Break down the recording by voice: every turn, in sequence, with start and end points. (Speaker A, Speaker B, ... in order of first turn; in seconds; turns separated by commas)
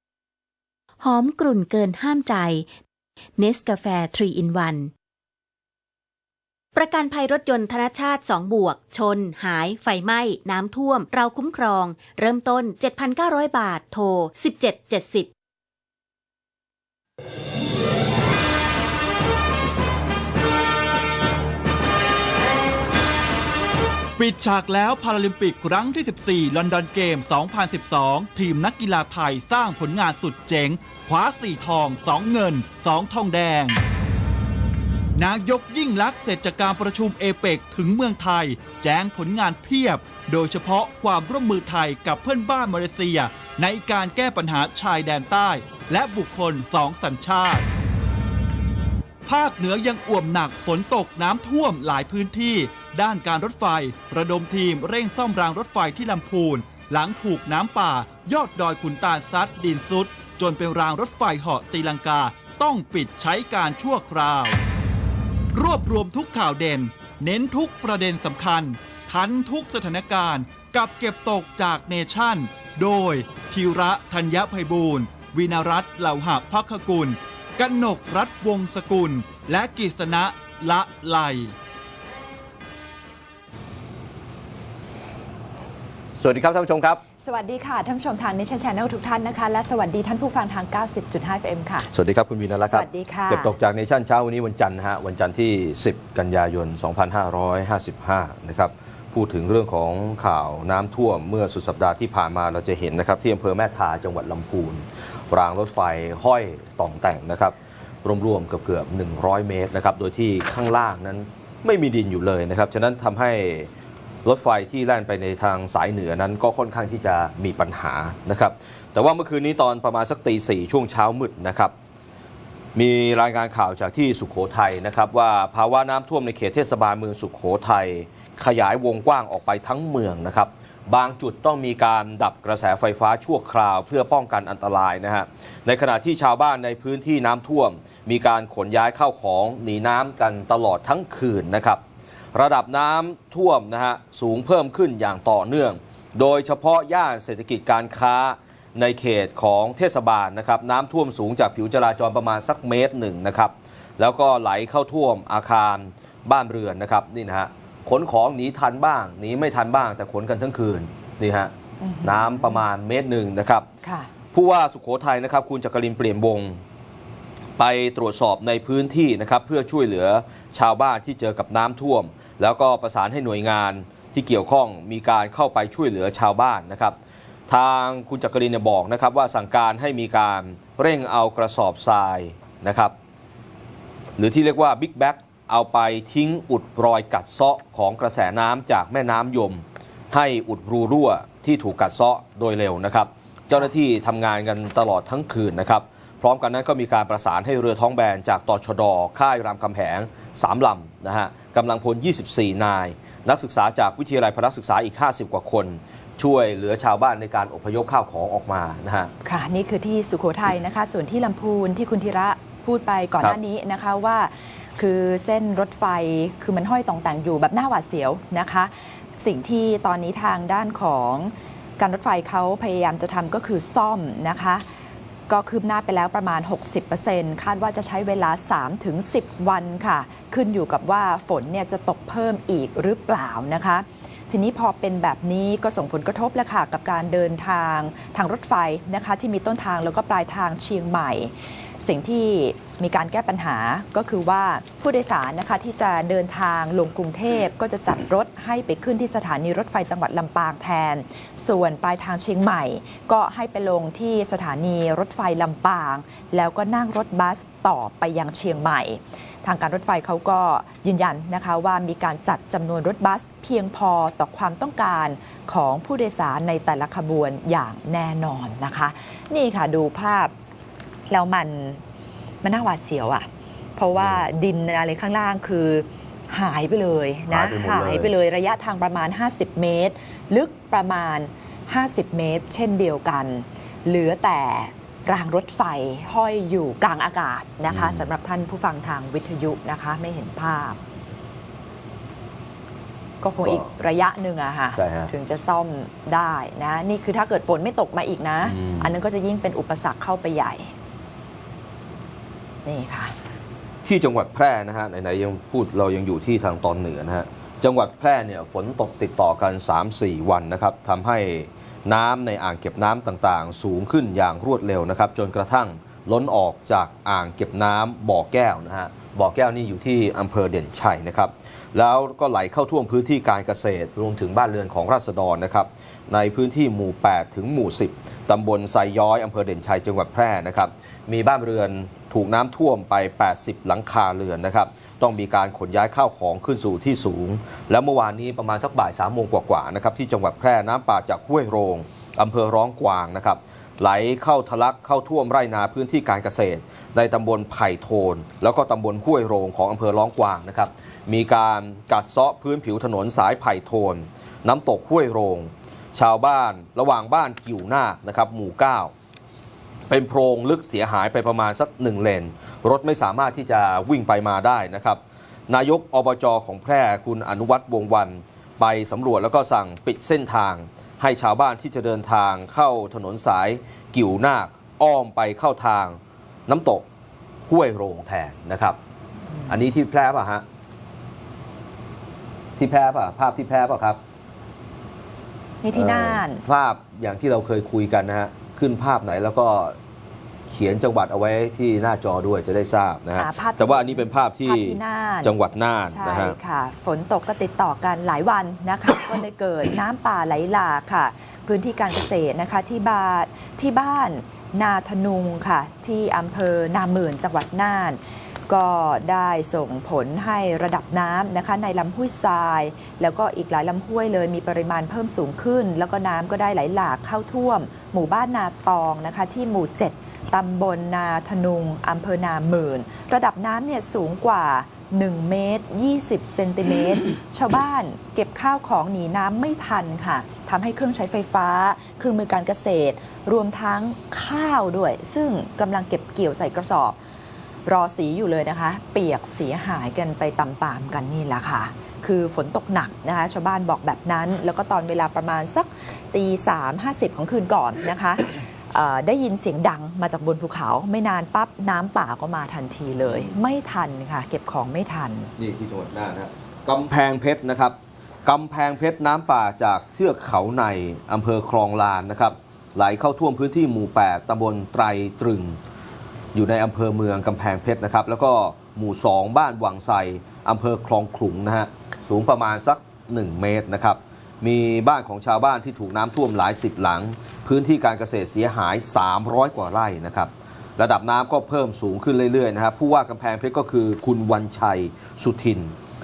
Speaker A: 1.0-2.7, Speaker A: 3.4-4.9, Speaker A: 6.7-15.3, Speaker B: 24.2-33.8, Speaker B: 35.1-47.6, Speaker B: 49.2-64.6, Speaker B: 65.5-81.5, Speaker C: 86.2-87.0, Speaker D: 87.2-91.9, Speaker C: 91.9-113.7, Speaker D: 92.7-93.5, Speaker C: 114.2-121.7, Speaker C: 122.7-141.8, Speaker C: 142.3-161.5, Speaker D: 161.8-162.6, Speaker C: 162.0-163.7, Speaker D: 163.8-164.1, Speaker C: 164.3-166.6, Speaker C: 167.6-176.9, Speaker C: 177.5-182.9, Speaker C: 184.2-209.1, Speaker D: 209.2-224.6, Speaker D: 225.3-270.3, Speaker D: 271.1-271.8, Speaker D: 272.4-290.8, Speaker C: 273.9-274.2, Speaker C: 277.3-278.1, Speaker C: 287.7-288.0, Speaker D: 293.2-300.7, Speaker C: 294.8-295.1, Speaker C: 298.4-298.9, Speaker D: 302.6-303.1, Speaker C: 303.8-358.9, Speaker C: 359.9-376.9, Speaker C: 377.5-378.8, Speaker C: 379.5-380.4, Speaker C: 382.6-384.0, Speaker D: 385.6-386.4, Speaker C: 385.7-389.8, Speaker C: 390.5-396.4, Speaker D: 393.2-395.3, Speaker D: 395.9-437.0, Speaker D: 437.6-455.3, Speaker C: 453.1-453.4, Speaker C: 455.4-465.6, Speaker C: 466.3-485.7